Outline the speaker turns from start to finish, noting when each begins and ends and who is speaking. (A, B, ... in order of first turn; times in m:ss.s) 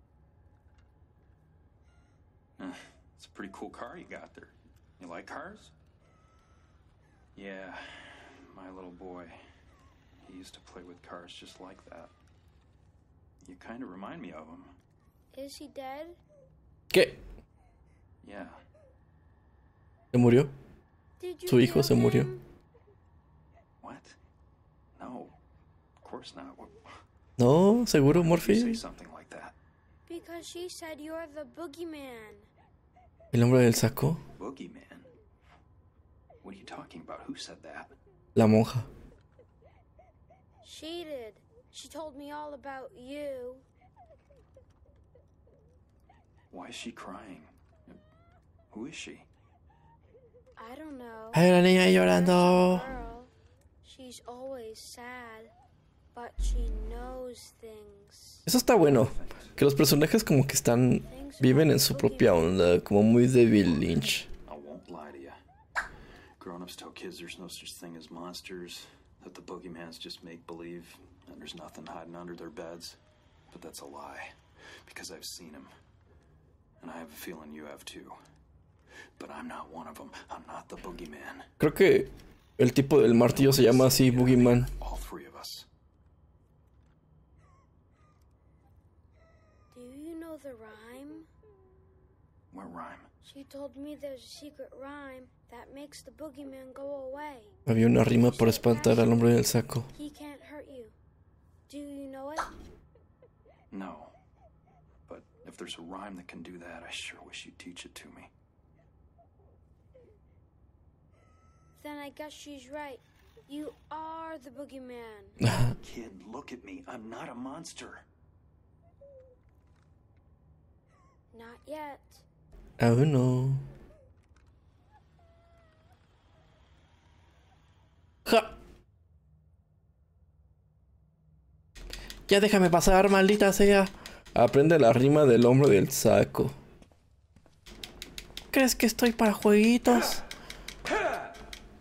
0:02.6-0:05.7 A
0:07.3-0:09.4 A
0:10.2-0:12.1 A
0:13.4-0:14.7 A
0:15.3-0:16.2 B
0:16.9-0:17.2 C
0:18.2-0:18.6 A
0:20.1-0:20.5 C
0:21.2-0:22.4 B
0:21.5-0:22.3 C
0:23.8-0:24.2 A
0:25.0-0:25.3 A
0:26.0-0:26.8 A
0:27.4-0:28.8 C
0:28.1-0:29.5 A
0:30.1-0:32.5 B
0:33.3-0:34.2 C
0:34.4-0:35.1 A
0:36.4-0:37.9 A
0:38.4-0:38.9 C
0:40.6-0:43.6 B
0:46.5-0:48.0 A
0:48.7-0:49.3 A
0:50.6-0:55.5 B
0:51.3-0:52.9 C
0:56.1-0:58.4 B
0:58.4-1:04.3 C
0:58.8-0:59.5 A
1:01.1-1:02.6 B
1:04.4-1:05.4 A
1:06.4-1:13.0 A
1:13.5-1:14.3 A
1:14.8-1:15.7 A
1:16.8-1:18.2 A
1:19.2-1:21.5 A
1:21.6-1:24.7 C
1:23.2-1:25.7 A
1:29.7-1:31.3 B
1:32.5-1:33.1 A
1:33.2-1:37.5 B
1:37.6-1:39.9 C
1:38.0-1:40.9 B
1:41.7-1:42.5 B
1:43.7-1:44.1 A
1:45.1-1:48.3 A
1:51.8-1:55.4 B
1:55.4-1:55.8 C
1:55.8-1:58.0 A
2:01.3-2:02.2 B
2:02.8-2:03.6 C
2:08.2-2:08.6 C
2:12.3-2:16.5 C
2:18.5-2:20.2 C